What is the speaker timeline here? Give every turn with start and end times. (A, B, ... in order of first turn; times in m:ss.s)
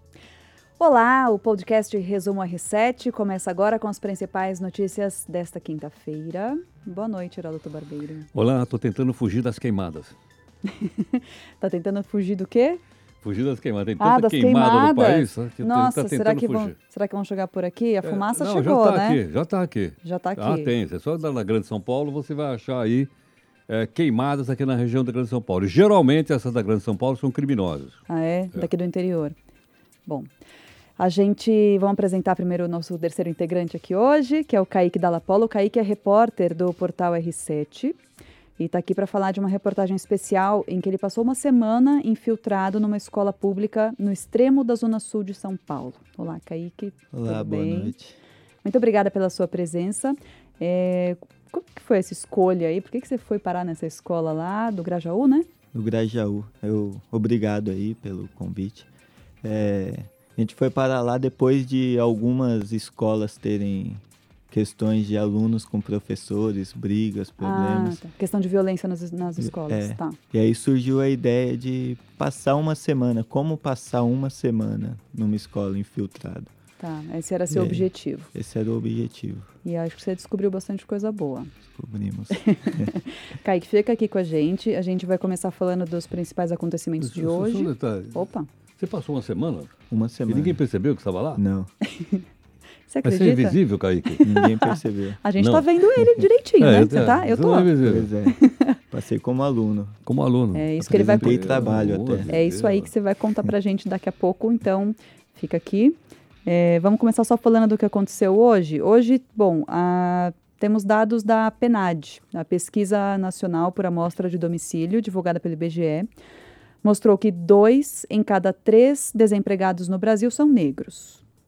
0:00.8-0:08.3 A
0:08.3-0:10.2 B
0:10.7-0:12.8 A
0:13.2-0:16.7 B
0:14.0-0:19.2 A
0:18.0-0:23.1 B
0:20.0-0:20.7 A
0:23.7-0:28.0 B
0:28.1-0:29.3 A
0:31.0-0:38.0 A
0:38.6-0:47.9 A
0:47.1-0:48.2 C
0:48.6-0:55.5 A
0:55.7-0:58.9 C
0:59.4-1:08.0 C
1:07.4-1:10.2 A
1:09.4-1:16.5 C
1:16.8-1:18.3 A
1:17.5-1:19.5 C
1:19.6-1:21.5 A
1:21.7-1:22.9 C
1:22.3-1:28.5 A
1:27.0-1:28.2 B
1:28.8-1:29.7 B
1:29.9-1:30.6 C
1:30.3-1:31.4 B
1:31.4-1:31.7 C
1:31.8-1:32.2 A
1:32.9-1:37.7 A
1:33.0-1:34.2 B
1:34.2-1:35.2 C
1:35.4-1:38.1 B
1:37.8-1:40.0 C
1:38.3-1:38.8 A
1:40.0-1:42.9 B
1:40.5-1:41.4 A
1:40.8-1:42.3 C
1:42.3-1:56.1 A
1:56.8-2:01.2 A